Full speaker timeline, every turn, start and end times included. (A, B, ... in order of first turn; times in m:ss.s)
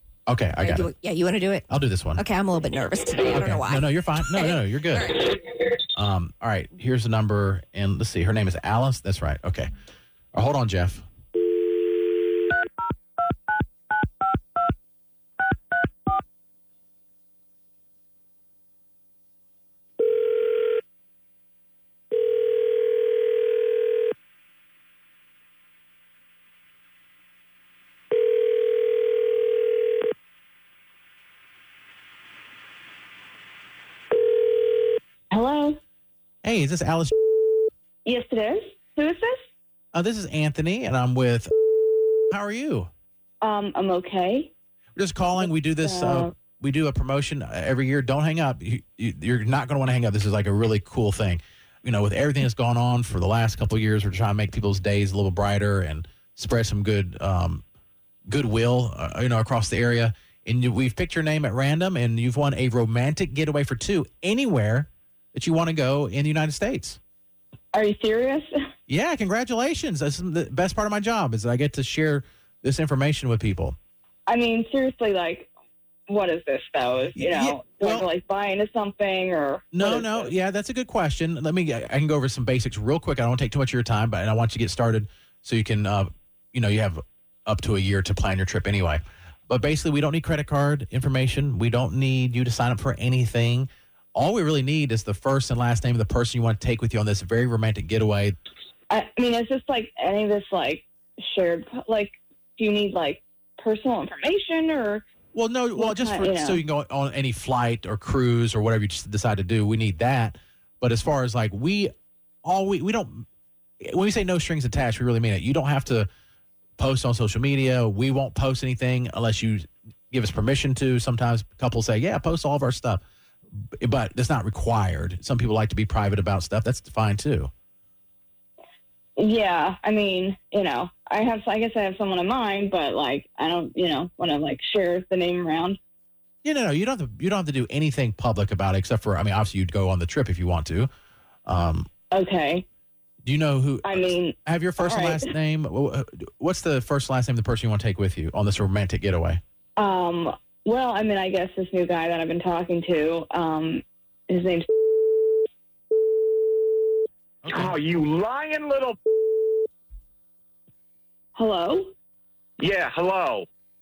0:00.3-0:00.9 A
0:00.6-0:05.3 B
0:01.7-0:02.2 A
0:03.3-0:05.2 A
0:06.0-0:09.7 A
0:10.3-0:11.0 A
0:35.3-0:35.8 C
0:36.4-0:37.1 A
0:38.0-0:39.4 C
0:39.9-0:41.5 A
0:42.3-0:42.9 A
0:43.4-0:44.5 C
0:45.0-0:57.6 A
0:45.8-0:46.3 C
0:58.3-1:07.0 A
1:07.7-1:08.5 C
1:08.9-1:13.8 A
1:14.3-1:15.5 C
1:16.1-1:20.3 C
1:17.2-1:18.1 A
1:19.7-1:38.4 A
1:38.9-1:45.0 C
1:45.3-1:51.9 A
1:45.8-1:46.6 C
1:52.4-1:53.3 A
1:53.8-1:56.1 A
1:56.8-2:03.0 A
2:03.8-2:07.5 A
2:09.2-2:15.8 C
2:16.4-2:20.9 A
2:21.5-2:21.9 A
2:22.1-2:22.6 C
2:23.2-2:29.4 A
2:23.8-2:25.3 C
2:29.8-2:34.7 C
2:37.4-2:37.8 A
2:37.5-2:39.0 D
2:41.4-2:41.9 C
2:42.6-2:43.5 D